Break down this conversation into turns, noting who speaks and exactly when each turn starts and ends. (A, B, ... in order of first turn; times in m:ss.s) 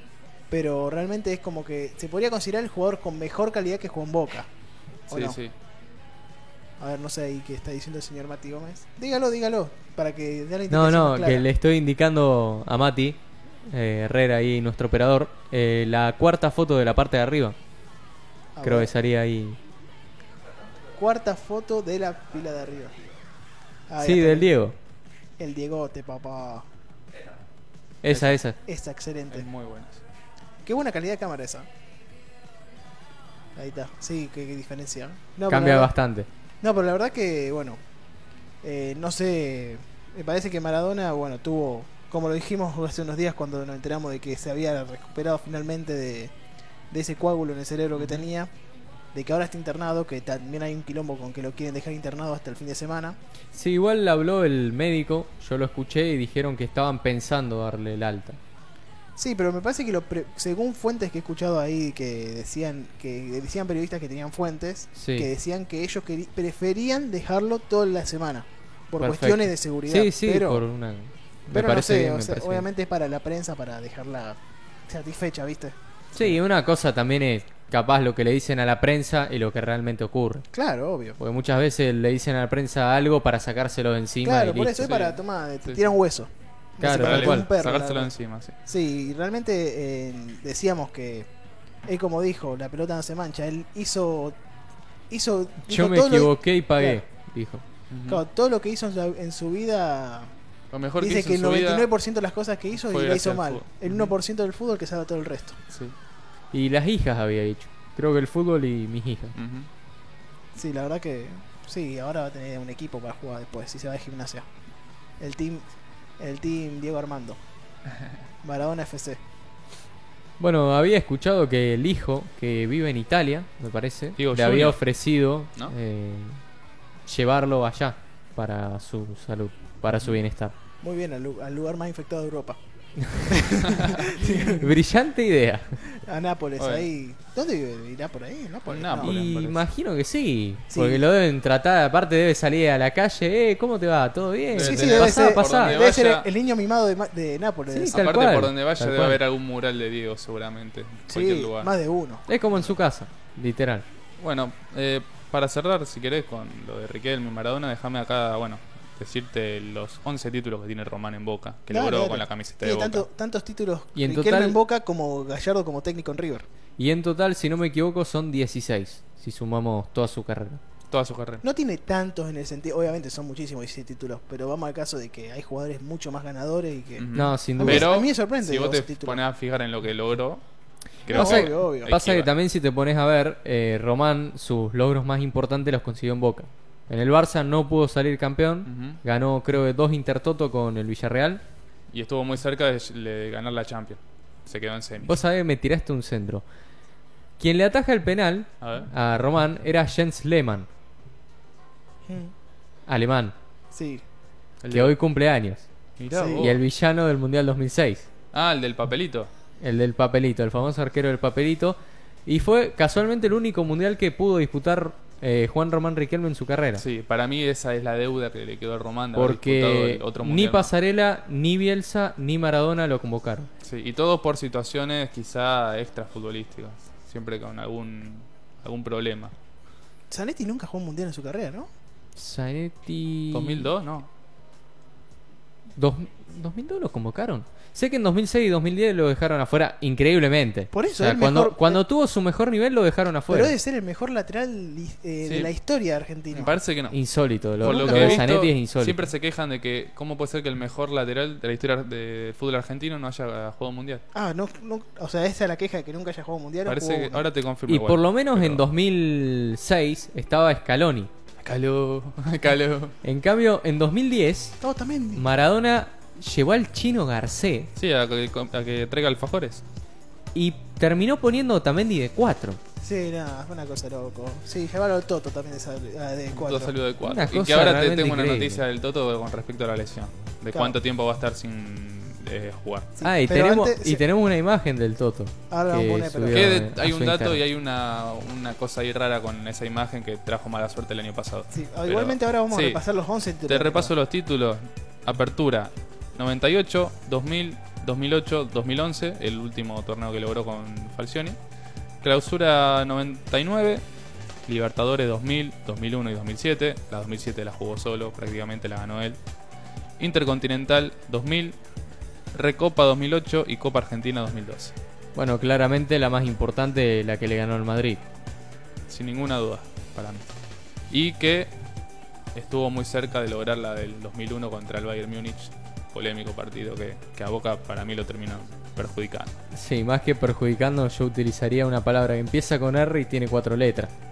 0:00.5-0:04.5 A
0:05.1-0:05.4 A
0:05.1-0:05.5 B
0:06.8-0:11.5 A
0:10.7-0:13.2 C
0:13.7-0:17.6 C
0:18.6-0:18.9 A
0:18.6-0:19.6 C
0:21.0-0:22.9 A
0:23.9-0:24.5 A
0:24.0-0:24.8 C
0:25.4-0:26.6 A
0:28.0-0:28.6 C
0:28.1-0:28.3 B
0:28.6-0:29.4 A
0:29.3-0:30.0 B
0:30.6-0:31.7 A
0:33.6-0:35.9 A
0:35.5-0:36.3 C
0:36.6-0:37.8 A
0:38.6-0:46.3 A
0:46.9-0:48.5 A
0:48.0-0:48.2 B
0:49.1-0:53.2 A
0:53.5-0:58.4 C
0:59.2-1:10.6 A
1:05.0-1:05.3 C
1:09.0-1:12.6 C
1:11.5-1:15.7 A
1:16.1-1:20.4 C
1:20.5-1:21.2 A
1:21.2-1:24.9 C
1:24.2-1:28.1 A
1:24.8-1:25.9 B
1:26.8-1:27.5 C
1:26.9-1:28.5 B
1:28.6-1:31.3 A
1:31.9-1:34.4 A
1:35.1-1:37.0 A
1:35.7-1:37.6 C
1:37.9-1:38.2 B
1:38.1-1:40.3 A
1:40.7-1:41.9 B
1:41.0-1:45.6 A
1:42.9-1:44.1 B
1:45.7-1:45.9 B
1:46.5-1:49.3 C
1:49.3-1:49.7 B
1:50.5-1:54.4 A
1:55.2-1:55.7 A
1:56.2-1:57.4 A
1:58.4-1:59.2 A
2:00.4-2:06.4 C
2:04.2-2:04.8 B
2:07.0-2:10.5 C
2:10.8-2:12.6 A
2:13.2-2:14.6 A
2:14.4-2:15.8 C
2:15.9-2:19.2 A
2:16.6-2:16.9 B
2:18.7-2:19.6 B
2:19.0-2:25.8 C
2:20.7-2:21.0 A
2:24.5-2:26.3 B
2:24.6-2:28.1 A
2:27.7-2:29.2 C
2:27.9-2:31.7 B
2:31.1-2:32.3 A
2:32.3-2:33.8 C
2:34.2-2:43.0 B
2:41.7-2:46.4 A
2:44.0-2:44.6 C
2:46.8-2:50.6 C
2:50.9-2:51.4 B
2:51.4-2:59.2 A
2:57.0-3:00.4 B
2:57.1-2:58.0 C
3:01.0-3:02.3 B
3:01.1-3:01.9 A
3:01.1-3:11.4 C
3:08.6-3:09.0 B
3:11.9-3:15.1 B
3:15.0-3:16.4 C
3:17.4-3:20.7 C
3:18.6-3:18.9 B
3:22.1-3:22.3 A
3:22.9-3:23.3 C
3:23.7-3:24.0 A
3:24.6-3:24.9 B
3:24.7-3:25.6 C
3:26.0-3:26.6 B
3:26.1-3:26.5 A
3:26.4-3:28.0 C
3:28.3-3:29.3 B
3:29.6-3:36.8 C
3:36.8-3:40.7 B
3:39.1-3:43.5 C
3:43.6-3:49.3 B
3:50.1-3:51.7 A
3:52.2-3:53.7 C
3:53.3-3:54.1 B
3:55.8-4:03.5 C
4:00.7-4:01.8 A
4:03.3-4:06.5 A
4:05.2-4:05.5 B
4:06.3-4:07.0 B
4:06.9-4:09.0 C
4:07.6-4:14.0 B
4:07.6-4:08.2 A
4:14.1-4:17.2 A
4:16.6-4:18.6 B
4:17.7-4:21.1 C
4:21.4-4:22.9 B
4:23.0-4:24.6 C
4:24.6-4:25.3 A
4:25.2-4:27.7 C
4:27.8-4:29.6 B
4:30.3-4:32.6 C
4:32.8-4:36.8 A
4:36.3-4:42.9 B
4:37.0-4:38.6 C
4:43.0-4:44.0 A
4:43.0-4:47.4 C
4:45.5-4:46.5 A
4:46.3-4:52.8 B
4:51.5-4:53.9 A
4:53.4-5:01.4 B
5:02.0-5:03.8 B
5:04.5-5:09.2 B
5:10.0-5:11.6 B
5:12.3-5:14.7 B
5:15.2-5:18.0 C
5:18.9-5:20.3 B
5:20.9-5:21.5 B
5:22.3-5:29.3 B
5:29.5-5:33.9 C